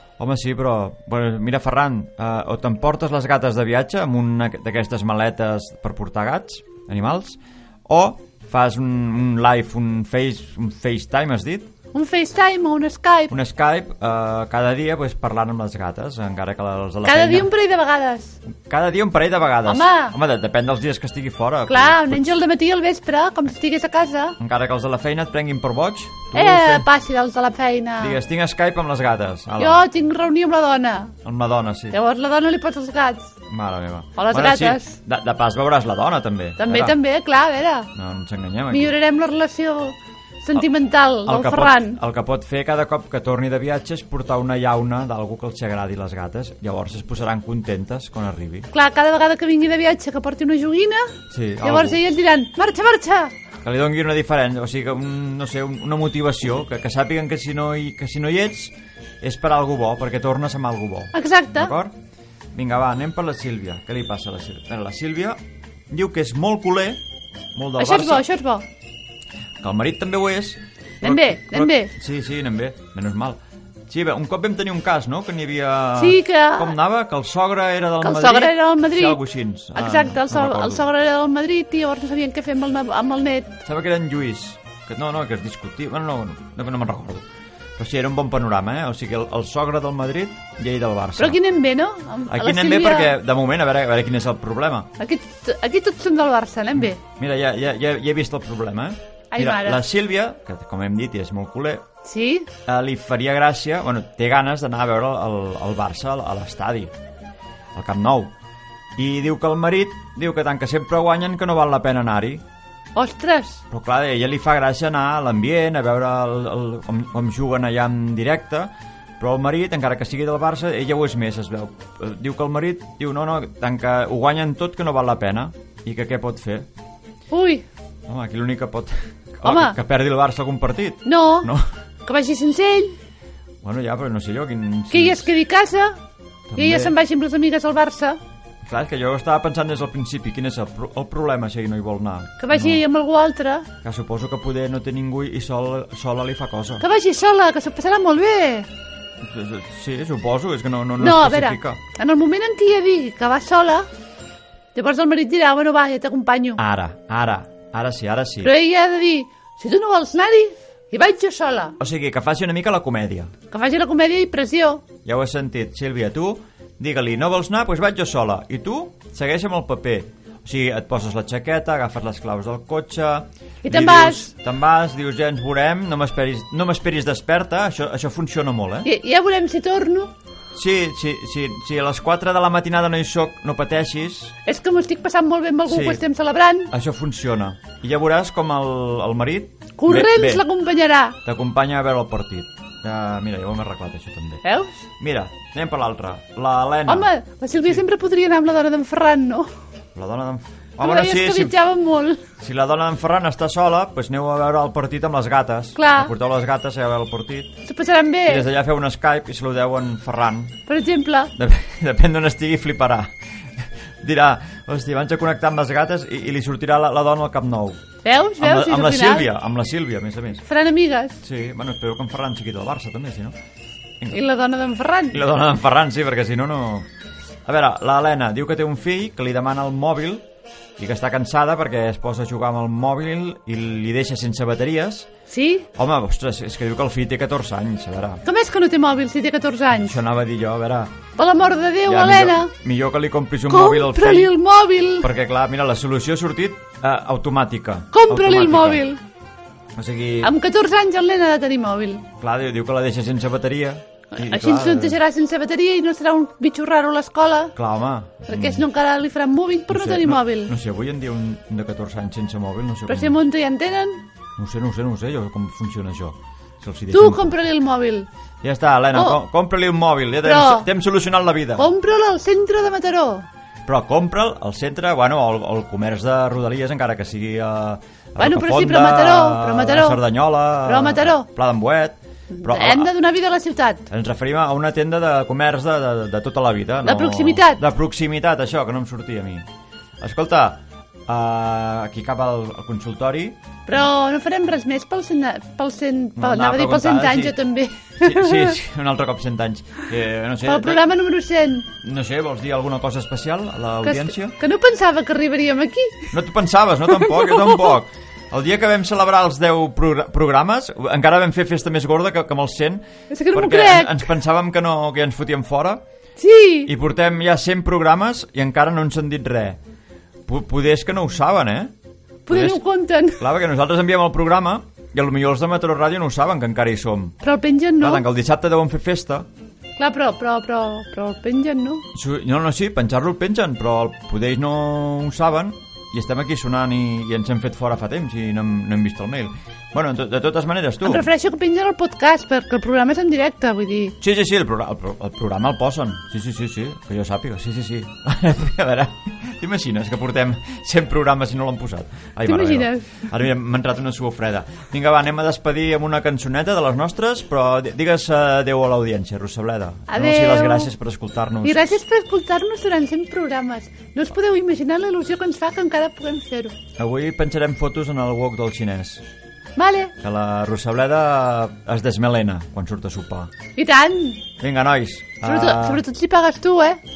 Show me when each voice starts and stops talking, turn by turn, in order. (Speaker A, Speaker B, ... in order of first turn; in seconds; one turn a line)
Speaker A: 0.2-11.7
Speaker B: 11.9-13.3
Speaker A: 13.3-17.5
Speaker B: 17.0-18.4
Speaker A: 18.6-22.3
Speaker B: 19.7-20.1
Speaker B: 21.7-24.4
Speaker A: 24.4-26.9
Speaker B: 26.3-28.2
Speaker A: 28.0-29.9
Speaker B: 29.6-31.1
Speaker A: 31.2-32.0
Speaker B: 31.9-33.3
Speaker A: 33.5-37.0
Speaker B: 34.2-34.9
Speaker B: 36.6-37.9
Speaker A: 37.9-38.9
Speaker B: 38.7-42.0
Speaker A: 41.2-48.7
Speaker B: 48.7-53.3
Speaker A: 51.3-52.0
Speaker A: 53.6-61.9
Speaker B: 61.1-61.7
Speaker A: 62.5-67.0
Speaker A: 67.5-68.2
Speaker B: 67.8-68.6
Speaker A: 69.6-80.8
Speaker B: 71.0-71.9
Speaker B: 76.0-76.7
Speaker B: 78.0-79.2
Speaker B: 79.7-83.6
Speaker A: 83.6-87.2
Speaker A: 87.8-91.4
Speaker B: 91.2-93.1
Speaker A: 92.3-94.9
Speaker B: 95.0-97.0
Speaker A: 96.8-101.8
Speaker B: 99.3-99.8
Speaker B: 102.0-102.5
Speaker A: 102.7-106.9
Speaker A: 107.7-108.3
Speaker A: 109.0-112.4
Speaker B: 113.0-113.6
Speaker A: 113.7-126.7
Speaker B: 127.3-127.7
Speaker A: 128.1-131.6
Speaker B: 129.4-129.8
Speaker B: 131.0-131.5
Speaker B: 132.1-132.9
Speaker A: 133.6-135.3
Speaker B: 134.9-136.0
Speaker A: 136.5-136.9
Speaker B: 136.6-138.2
Speaker A: 138.6-142.8
Speaker B: 142.4-143.7
Speaker A: 143.8-146.8
Speaker B: 146.8-148.7
Speaker A: 149.2-151.8
Speaker B: 151.0-153.9
Speaker B: 154.7-156.6
Speaker A: 156.6-158.5
Speaker B: 158.4-161.7
Speaker A: 161.8-163.3
Speaker B: 163.5-164.8
Speaker A: 165.0-178.9
Speaker B: 173.6-174.3
Speaker B: 178.8-180.1
Speaker A: 180.5-184.3
Speaker B: 184.4-186.7
Speaker A: 185.7-186.0
Speaker A: 186.7-190.5
Speaker B: 189.8-191.2
Speaker A: 191.2-194.4
Speaker B: 194.4-194.8
Speaker A: 195.0-197.8
Speaker B: 196.9-199.5
Speaker A: 199.9-201.6
Speaker B: 200.8-202.2
Speaker A: 202.4-207.6
Speaker B: 205.8-206.1
Speaker B: 207.7-208.4
Speaker A: 208.2-210.6
Speaker B: 210.7-211.3
Speaker A: 211.4-213.1
Speaker A: 214.0-217.8
Speaker B: 218.0-219.3
Speaker A: 218.4-220.4
Speaker B: 220.4-221.2
Speaker A: 221.2-223.3
Speaker B: 224.1-225.2
Speaker A: 225.1-226.8
Speaker A: 227.4-230.2
Speaker A: 230.8-235.1
Speaker B: 235.3-235.7
Speaker A: 235.7-238.2
Speaker B: 238.2-239.9
Speaker A: 239.7-240.9
Speaker B: 241.2-242.5
Speaker A: 241.8-244.3
Speaker B: 243.5-245.1
Speaker A: 245.0-248.9
Speaker B: 247.9-249.0
Speaker A: 249.7-250.3
Speaker B: 250.2-252.1
Speaker A: 252.2-255.0
Speaker B: 254.1-257.5
Speaker A: 257.5-258.6
Speaker B: 258.3-260.5
Speaker A: 259.7-263.2
Speaker B: 262.9-264.0
Speaker A: 264.4-267.4
Speaker B: 266.9-268.1
Speaker A: 268.4-271.7
Speaker B: 268.9-269.2
Speaker B: 270.2-270.7
Speaker B: 271.6-273.2
Speaker A: 273.6-282.9
Speaker B: 278.2-280.0
Speaker B: 280.6-281.3
Speaker B: 282.3-283.9
Speaker A: 283.9-289.4
Speaker B: 286.8-287.6
Speaker A: 290.0-293.4
Speaker B: 293.7-298.6
Speaker A: 296.1-297.4
Speaker A: 298.0-300.9
Speaker B: 300.4-301.7
Speaker A: 301.7-304.4
Speaker B: 303.8-306.1
Speaker A: 306.1-315.8
Speaker B: 307.0-307.7
Speaker B: 313.1-314.1
Speaker B: 316.2-316.7
Speaker A: 316.6-319.6
Speaker A: 320.3-321.7
Speaker B: 322.3-323.2
Speaker A: 322.3-322.6
Speaker A: 323.2-327.2
Speaker B: 327.2-328.0
Speaker A: 327.8-329.3
Speaker B: 329.8-331.8
Speaker A: 331.9-341.1
Speaker B: 340.8-343.9
Speaker A: 344.0-361.8
Speaker B: 352.2-352.9
Speaker B: 359.9-360.7
Speaker B: 361.4-366.6
Speaker A: 366.8-369.0
Speaker B: 369.6-369.9
Speaker A: 370.0-373.3
Speaker B: 373.6-374.2
Speaker A: 374.4-375.8
Speaker B: 375.2-376.8